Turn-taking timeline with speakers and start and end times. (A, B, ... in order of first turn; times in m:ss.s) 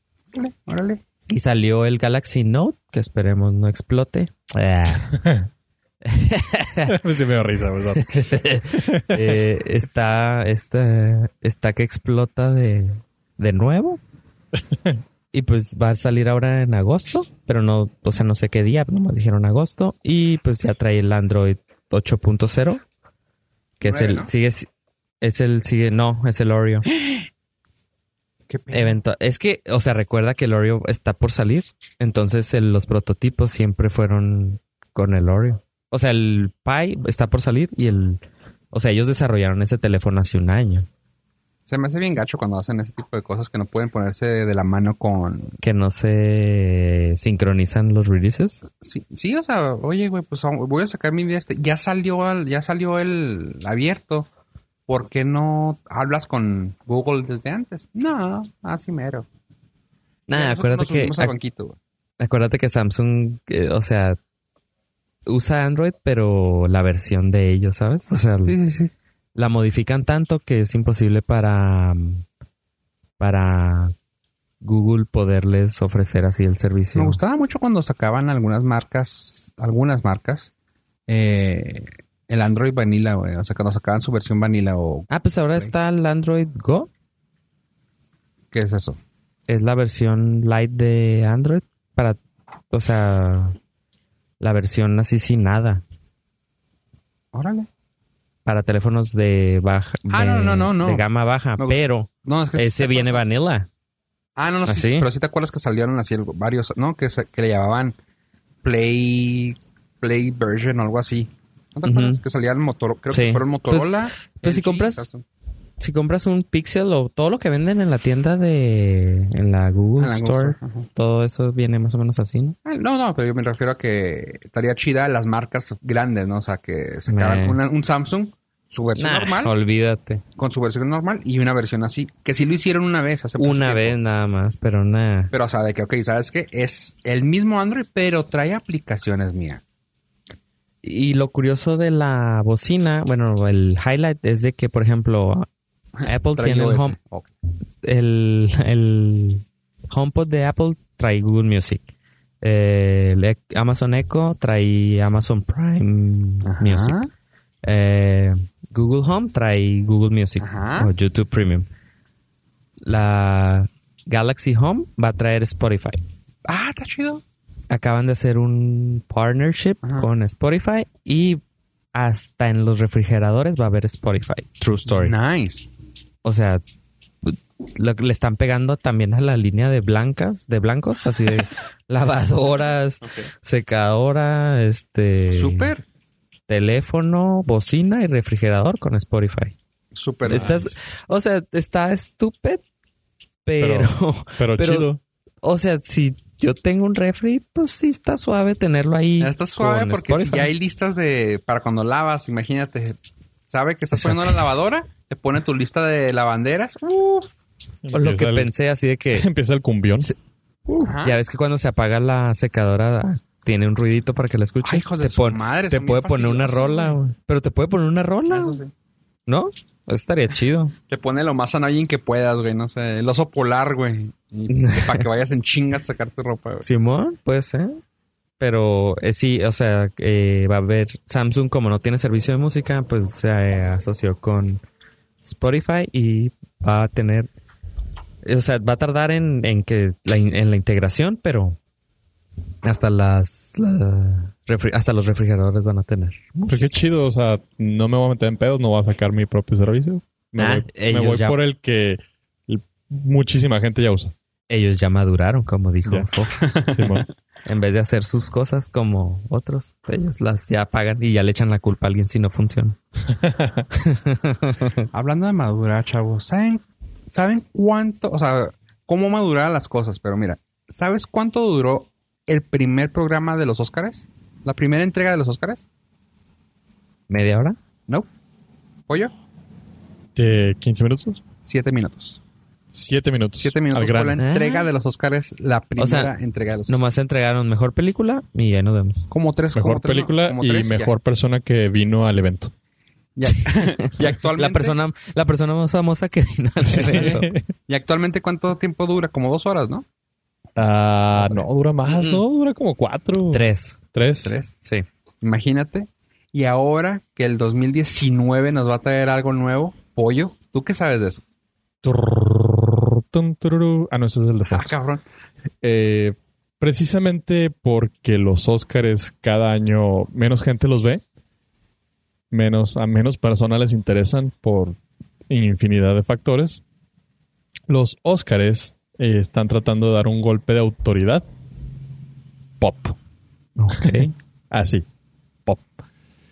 0:00.3-0:01.0 A
0:01.3-0:05.1 B
0:05.0-0:05.5 C
0:06.0-0:07.0 B
0:06.9-0:09.4 C
0:08.0-0:14.0 B
0:14.7-0:15.0 C
0:15.3-0:22.8 B
0:23.8-0:24.3 A
0:23.8-0:24.7 B
0:25.2-0:26.9 B
0:27.0-0:27.2 A
0:28.5-0:29.0 A
0:28.7-0:38.2 B
0:38.7-0:40.9 B
0:41.7-0:45.6 A
0:45.6-0:48.6 B
0:48.8-0:54.3 A
0:54.9-0:59.3 A
1:00.3-1:01.3 B
1:00.3-1:01.8 A
1:02.2-1:04.2 B
1:05.3-1:08.6 B
1:08.4-1:08.9 A
1:09.4-1:12.2 B
1:13.2-1:14.0 B
1:14.6-1:17.2 B
1:17.0-1:20.5 A
1:21.1-1:25.7 A
1:25.1-1:26.9 B
1:28.5-1:29.0 A
1:29.5-1:32.2 B
1:32.7-1:33.6 B
1:34.4-1:35.8 B
1:37.3-1:37.7 A
1:38.5-1:43.7 B
1:40.1-1:41.0 A
1:41.6-1:43.3 A
1:44.4-1:48.0 A
1:44.7-1:45.1 B
1:48.6-1:55.2 A
1:51.8-1:52.2 B
1:53.1-1:55.1 B
1:55.8-2:02.6 B
2:00.0-2:00.9 A
2:02.6-2:09.5 A
2:07.1-2:07.6 B
2:09.0-2:10.2 B
2:10.4-2:14.0 A
2:13.4-2:15.3 B
2:15.3-2:19.6 A
2:20.8-2:25.5 B
2:26.0-2:27.3 A
2:26.0-2:27.0 B
2:27.8-2:31.8 B
2:32.4-2:37.0 B
2:36.4-2:37.1 A
2:37.6-2:41.7 B
2:40.4-2:40.9 A
2:42.9-2:46.0 B
2:46.5-2:47.2 A
2:47.7-2:51.4 B
2:51.9-2:55.1 B
2:54.9-2:55.7 A
2:56.2-2:56.6 B
2:57.2-3:05.7 B
3:05.3-3:05.8 A
3:06.5-3:09.6 B
3:10.0-3:10.8 A
3:10.2-3:12.6 B
3:13.4-3:14.9 B
3:13.6-3:15.0 C
3:15.4-3:20.5 B
3:19.2-3:27.3 A
3:27.8-3:28.5 C
3:27.9-3:29.3 B
3:29.1-3:30.1 C
3:30.0-3:38.6 B
3:30.8-3:31.2 A
3:34.6-3:37.0 A
3:38.3-3:38.7 A
3:39.3-3:40.7 B
3:40.9-3:46.6 A
3:44.5-3:45.0 B
3:46.6-3:47.8 B
3:48.4-3:54.6 B
3:55.2-3:57.3 B
3:58.2-4:01.6 B
4:02.6-4:06.9 B
4:06.5-4:14.1 C
4:10.4-4:11.4 B
4:14.5-4:16.4 B
4:16.4-4:17.0 A
4:16.7-4:17.1 C
4:17.5-4:22.8 B
4:23.1-4:23.6 C
4:23.7-4:24.8 B
4:24.9-4:35.7 A
4:37.1-4:37.6 B
4:40.1-4:41.2 C
4:41.4-4:42.2 A
4:42.7-4:44.2 C
4:43.4-4:46.8 A
4:44.2-4:44.7 B
4:45.8-4:46.1 B
4:46.7-4:49.1 B
4:49.1-4:50.9 A
4:49.6-4:52.5 C
4:53.2-4:54.8 A
4:53.3-4:57.3 B
4:56.7-4:57.5 C
4:56.9-4:59.8 A
5:00.6-5:04.4 C
5:01.9-5:02.2 B
5:03.3-5:03.8 B
5:04.2-5:04.6 A
5:05.2-5:11.2 A
5:11.8-5:14.7 C
5:14.5-5:15.0 A
5:15.6-5:21.0 C
5:22.3-5:24.8 C
5:25.3-5:26.6 C
5:27.7-5:31.2 C
5:32.6-5:33.0 C
5:33.6-5:34.1 B
5:33.8-5:34.9 C
5:35.5-5:35.7 C